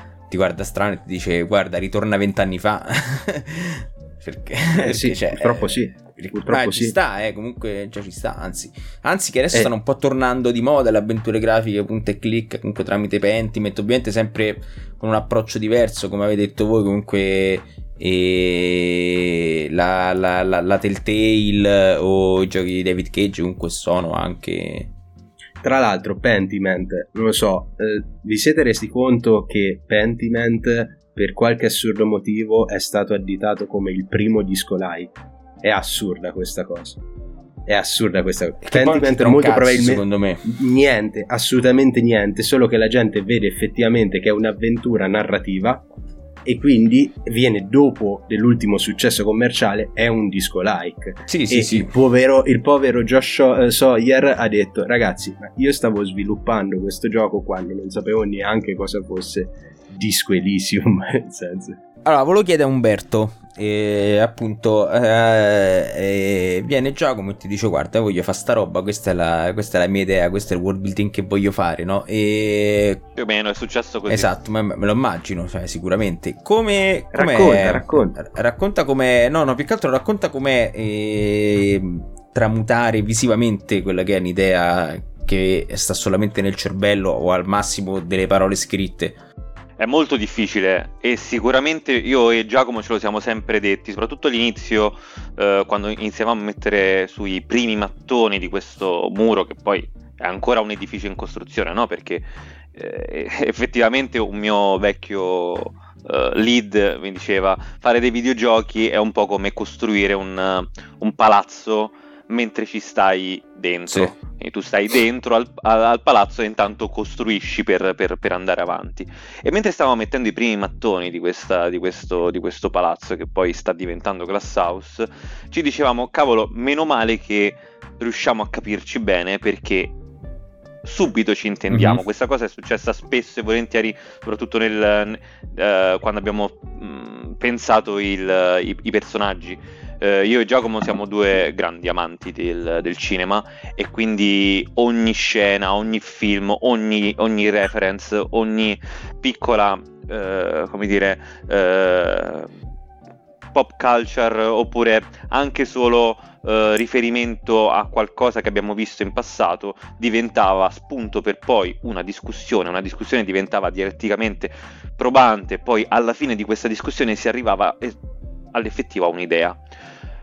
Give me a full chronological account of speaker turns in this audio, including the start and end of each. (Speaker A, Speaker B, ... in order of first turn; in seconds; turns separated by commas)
Speaker A: 0.3-24.9, Speaker B: 4.8-7.0, Speaker B: 25.6-37.0, Speaker B: 37.7-45.9, Speaker A: 38.6-40.5, Speaker B: 46.5-61.8, Speaker A: 51.3-51.9, Speaker A: 62.0-73.0, Speaker C: 73.2-74.3, Speaker A: 74.1-89.2, Speaker B: 77.1-78.2, Speaker C: 89.8-130.0, Speaker C: 130.8-152.5, Speaker A: 131.7-132.0, Speaker C: 153.5-168.0, Speaker C: 168.5-169.6